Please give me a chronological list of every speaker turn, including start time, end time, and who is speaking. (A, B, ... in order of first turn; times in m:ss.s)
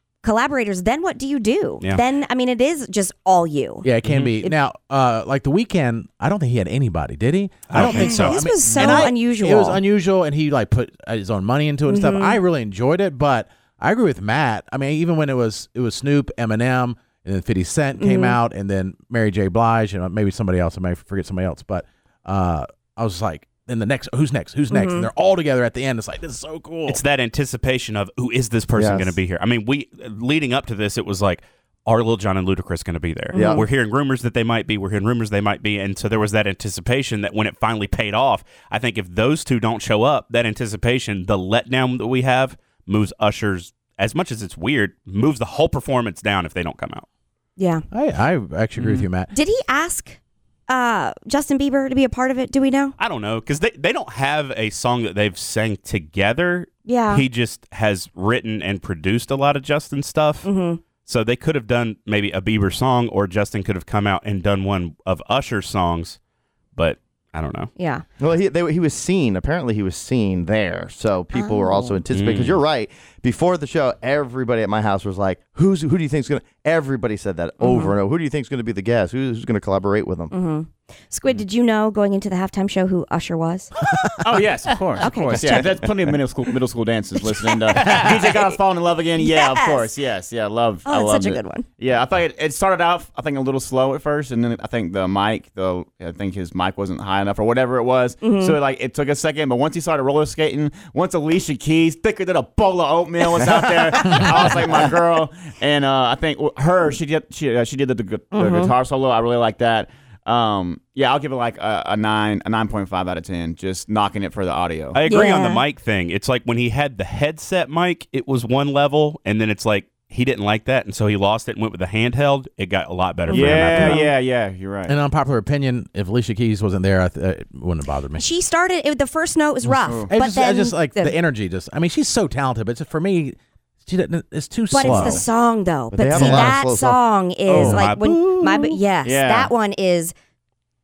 0:00.2-0:03.9 A
0:03.8-0:27.0 B
0:07.7-0:08.7 C
0:07.8-0:09.8 A
0:11.9-0:12.4 A
0:18.0-0:18.4 A
0:24.7-0:25.1 A
0:26.9-0:47.1 C
0:28.8-0:29.2 D
0:33.3-0:33.6 A
0:33.4-0:33.6 D
0:47.6-0:47.8 A
0:47.9-0:49.3 B
0:48.8-0:49.0 E
0:49.3-0:53.0 A
0:53.0-1:00.5 C
0:56.9-0:57.2 A
1:00.4-1:00.8 A
1:01.0-1:06.2 C
1:06.8-1:07.7 C
1:07.8-1:08.0 A
1:08.2-1:20.3 D
1:11.3-1:12.0 A
1:12.1-1:12.6 C
1:17.6-1:17.9 A
1:20.3-1:23.7 A
1:24.0-1:25.9 B
1:24.2-1:55.0 E
1:25.0-1:25.9 A
1:27.2-1:28.4 A
1:27.8-1:28.1 B
1:29.2-1:29.9 A
1:30.9-1:31.6 A
1:38.2-1:38.6 A
1:48.3-1:48.7 A
1:54.9-2:04.1 C
1:55.1-1:55.6 A
2:03.3-2:04.1 A
2:03.3-2:04.9 E
2:04.9-2:08.2 B
2:08.2-2:11.1 A
2:09.6-2:15.2 B
2:09.8-2:10.1 E
2:14.7-2:20.1 A
2:15.9-2:17.0 D
2:16.1-2:16.5 B
2:17.5-2:17.8 E
2:17.5-2:17.8 B
2:17.6-2:18.2 C
2:19.0-2:19.5 E